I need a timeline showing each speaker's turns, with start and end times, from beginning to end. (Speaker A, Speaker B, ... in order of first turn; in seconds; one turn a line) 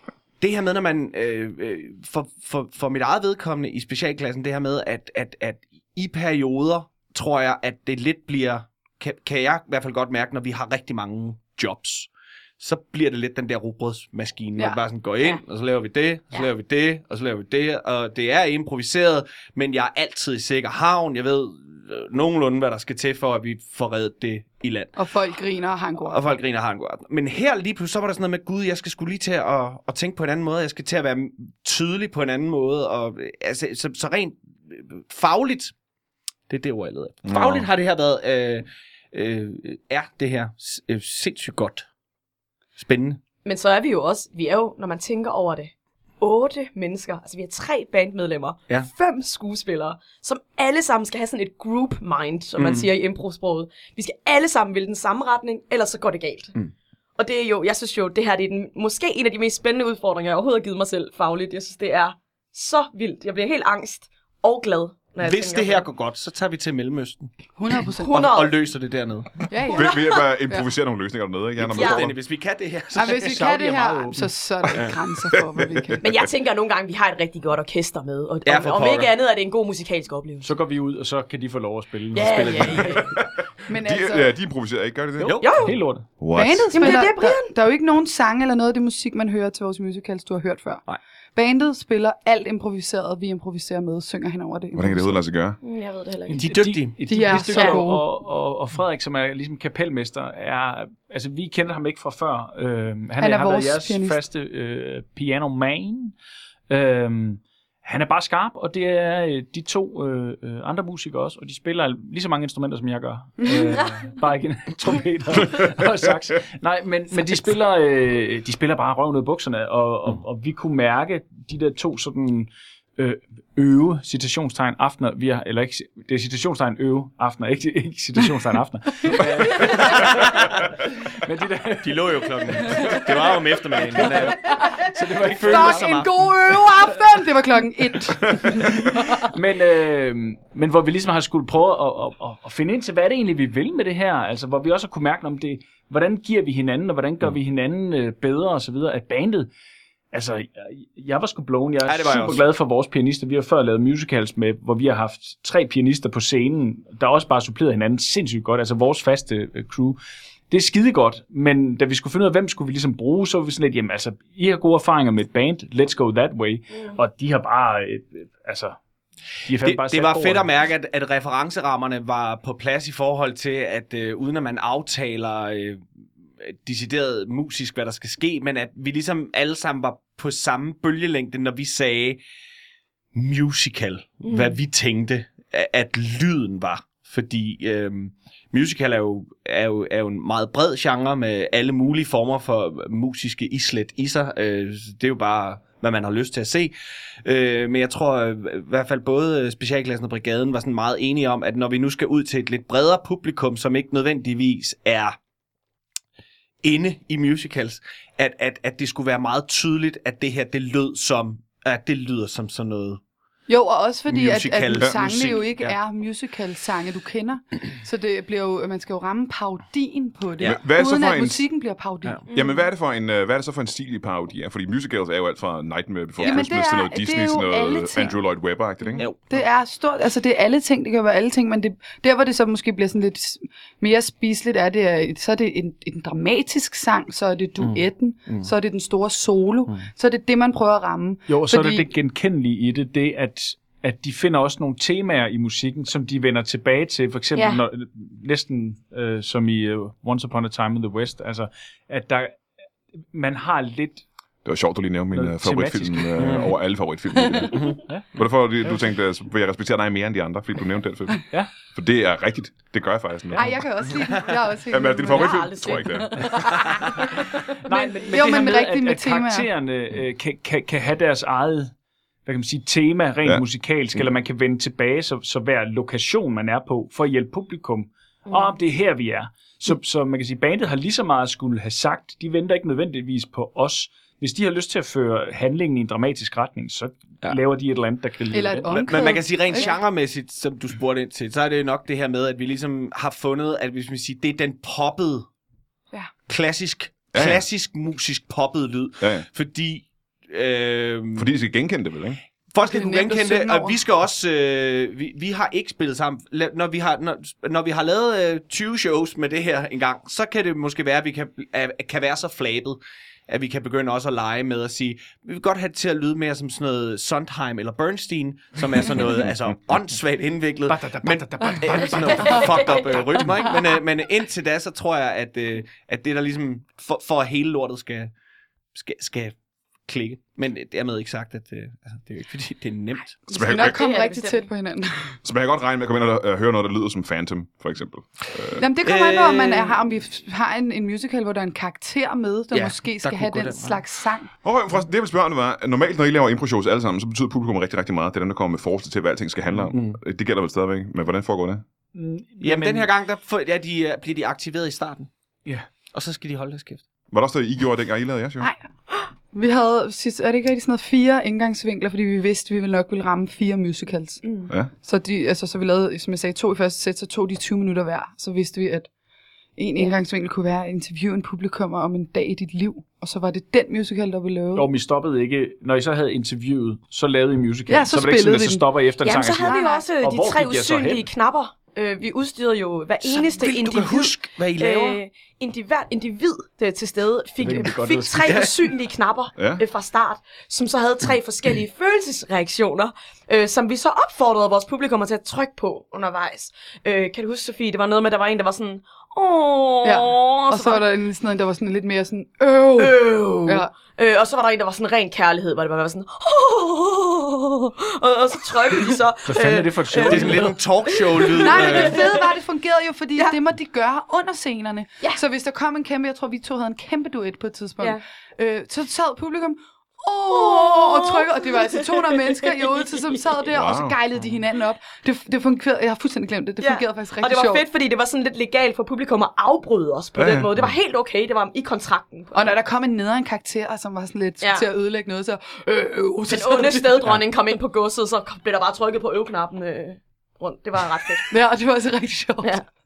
Speaker A: 0.4-25.0
Speaker B: 24.9-26.4
Speaker A: 26.0-35.7
Speaker A: 36.5-41.9
Speaker C: 37.2-37.7
Speaker A: 42.8-43.2
Speaker D: 43.4-56.5
Speaker A: 52.6-52.9
Speaker D: 57.2-65.9
Speaker A: 65.2-67.3
Speaker B: 67.6-68.3
Speaker D: 68.0-68.5
Speaker A: 68.1-69.5
Speaker B: 69.5-70.6
Speaker C: 69.7-72.2
Speaker D: 69.7-70.2
Speaker A: 71.6-73.5
Speaker D: 71.7-72.1
Speaker B: 72.9-76.1
Speaker E: 73.1-74.2
Speaker C: 75.6-75.9
Speaker D: 76.0-80.5
Speaker A: 78.4-79.1
Speaker E: 80.4-83.1
Speaker D: 82.1-83.1
Speaker A: 82.5-82.7
Speaker B: 83.7-84.3
Speaker C: 83.8-85.4
Speaker A: 85.2-85.7
Speaker D: 85.4-85.8
Speaker E: 85.6-86.1
Speaker C: 86.2-86.9
Speaker B: 86.3-90.8
Speaker D: 86.7-87.5
Speaker B: 91.3-95.2
Speaker C: 94.7-95.6
Speaker D: 95.6-96.5
Speaker A: 96.3-97.5
Speaker E: 96.4-106.2
Speaker B: 97.1-98.1
Speaker D: 97.5-97.8
Speaker B: 103.2-104.2
Speaker E: 106.7-136.0
Speaker A: 129.8-130.5
Speaker A: 131.8-134.5
Speaker B: 134.1-134.8
Speaker A: 135.2-136.1
Speaker B: 135.4-139.3
Speaker E: 138.5-149.5
Speaker E: 150.1-160.0
Speaker A: 151.8-152.4
Speaker E: 160.5-168.8
Speaker E: 169.4-170.5
Speaker A: 169.6-175.8
Speaker A: 176.4-182.2
Speaker A: 183.1-196.7
Speaker D: 184.2-184.6
Speaker A: 197.2-205.2
Speaker A: 206.6-213.0
Speaker B: 213.5-222.2
Speaker A: 214.1-215.8
Speaker C: 220.4-221.4
Speaker D: 222.3-222.6
Speaker C: 222.3-229.1
Speaker A: 226.2-226.4
Speaker B: 226.2-228.1
Speaker B: 229.3-241.9
Speaker A: 237.6-238.5
Speaker E: 241.3-252.4
Speaker D: 247.3-247.6
Speaker E: 253.1-254.0
Speaker C: 254.4-263.6
Speaker E: 255.1-256.5
Speaker A: 256.2-256.5
Speaker A: 257.5-257.8
Speaker E: 257.9-258.9
Speaker B: 263.3-265.5
Speaker C: 264.7-266.3
Speaker D: 265.1-268.1
Speaker E: 267.6-271.7
Speaker B: 267.7-269.5
Speaker E: 272.2-288.9
Speaker B: 288.3-289.7
Speaker A: 288.7-295.3
Speaker D: 289.1-289.6
Speaker A: 296.3-301.3
Speaker C: 297.1-297.4
Speaker C: 299.0-299.2
Speaker C: 301.1-302.2
Speaker A: 302.5-328.1
Speaker B: 302.6-303.8
Speaker E: 320.7-322.4
Speaker D: 322.0-323.2
Speaker A: 328.7-329.4
Speaker A: 329.9-333.2
Speaker C: 333.3-333.8
Speaker D: 333.3-334.5
Speaker B: 333.3-335.2
Speaker C: 335.2-338.6
Speaker B: 338.6-344.3
Speaker A: 338.8-339.7
Speaker A: 342.5-343.8
Speaker C: 344.4-351.6
Speaker A: 349.7-350.0
Speaker E: 351.9-352.9
Speaker A: 352.4-355.1
Speaker A: 355.9-356.8
Speaker C: 357.1-358.5
Speaker B: 359.3-364.2
Speaker D: 364.2-364.5
Speaker B: 364.8-368.9
Speaker B: 369.6-374.7
Speaker E: 374.5-381.1
Speaker B: 377.7-378.6
Speaker D: 379.0-400.8
Speaker B: 379.3-379.8
Speaker A: 383.0-385.0
Speaker E: 387.4-388.5
Speaker A: 388.2-388.5
Speaker C: 389.4-389.6
Speaker B: 399.8-403.7
Speaker D: 402.8-412.3
Speaker E: 409.2-410.6
Speaker A: 410.0-412.0
Speaker B: 411.4-427.6
Speaker D: 420.3-423.3
Speaker C: 423.5-423.9
Speaker D: 426.6-432.5
Speaker C: 430.1-430.7
Speaker B: 432.3-437.2
Speaker D: 434.4-434.6
Speaker D: 436.3-441.3
Speaker B: 441.3-442.6